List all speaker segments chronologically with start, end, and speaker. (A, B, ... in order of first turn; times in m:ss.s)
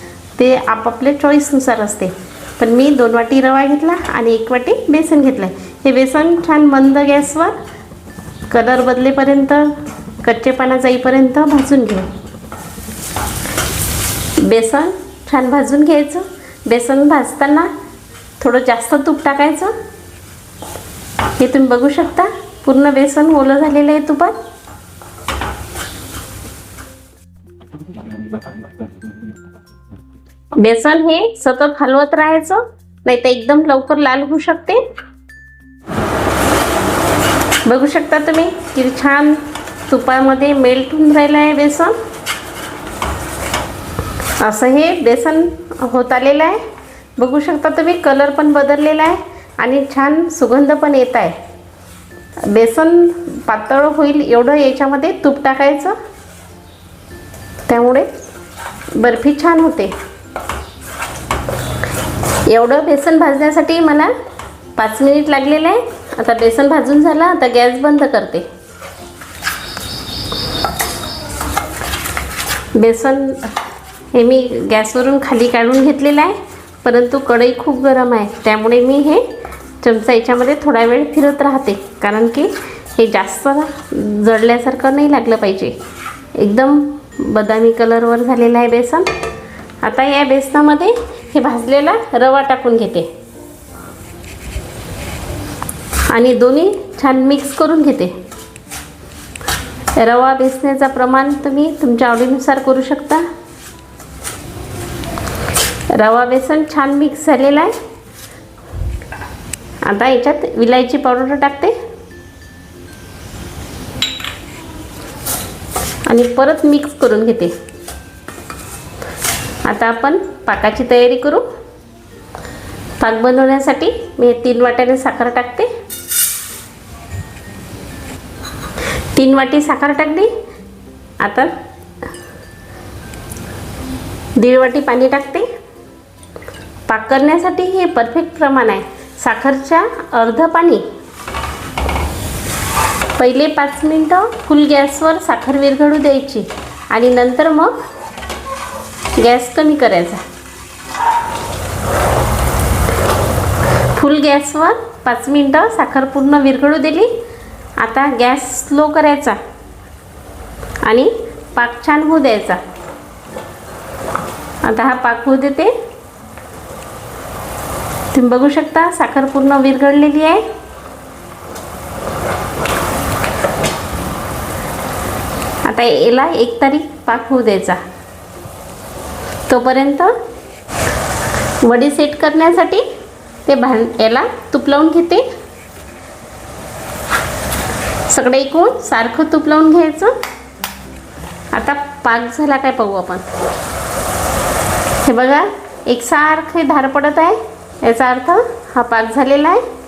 0:00.4-0:07.6 A
0:08.5-0:12.1 A
0:14.4-0:17.7 A
0:18.4-0:19.7 A
0:21.4-0:24.4 A
0:30.6-0:34.8 A
0:37.7-0:42.0 A
0:44.4-0:46.6 A
0:47.2-0:51.4 A
0:52.5-0:56.0 A
0:57.7-0:58.1 A
0:59.0-0:59.9 A
1:02.5-1:04.1 A
1:04.8-1:08.5 A
1:12.8-1:13.5 A
1:14.1-1:19.2 A
1:19.8-1:25.8 A
1:26.4-1:29.1 A
1:29.8-1:33.1 A
1:36.1-1:38.2 A
1:40.0-1:43.2 A
1:45.9-1:47.7 A
1:49.8-1:51.8 A
1:56.1-1:57.6 A
1:59.6-2:01.4 A
2:03.0-2:05.7 A
2:09.1-2:10.3 A
2:11.2-2:11.5 A
2:14.4-2:15.5 A
2:16.9-2:20.8 A
2:23.2-2:27.7 A
2:29.2-2:30.2 A
2:33.9-2:37.1 A
2:37.8-2:39.4 A
2:40.8-2:42.6 A
2:44.6-2:45.7 A
2:48.1-2:50.4 A
2:55.6-2:57.8 A
2:59.5-3:00.1 A
3:01.6-3:02.8 A
3:03.4-3:05.3 A
3:08.1-3:10.1 A
3:11.5-3:13.2 A
3:15.0-3:19.6 A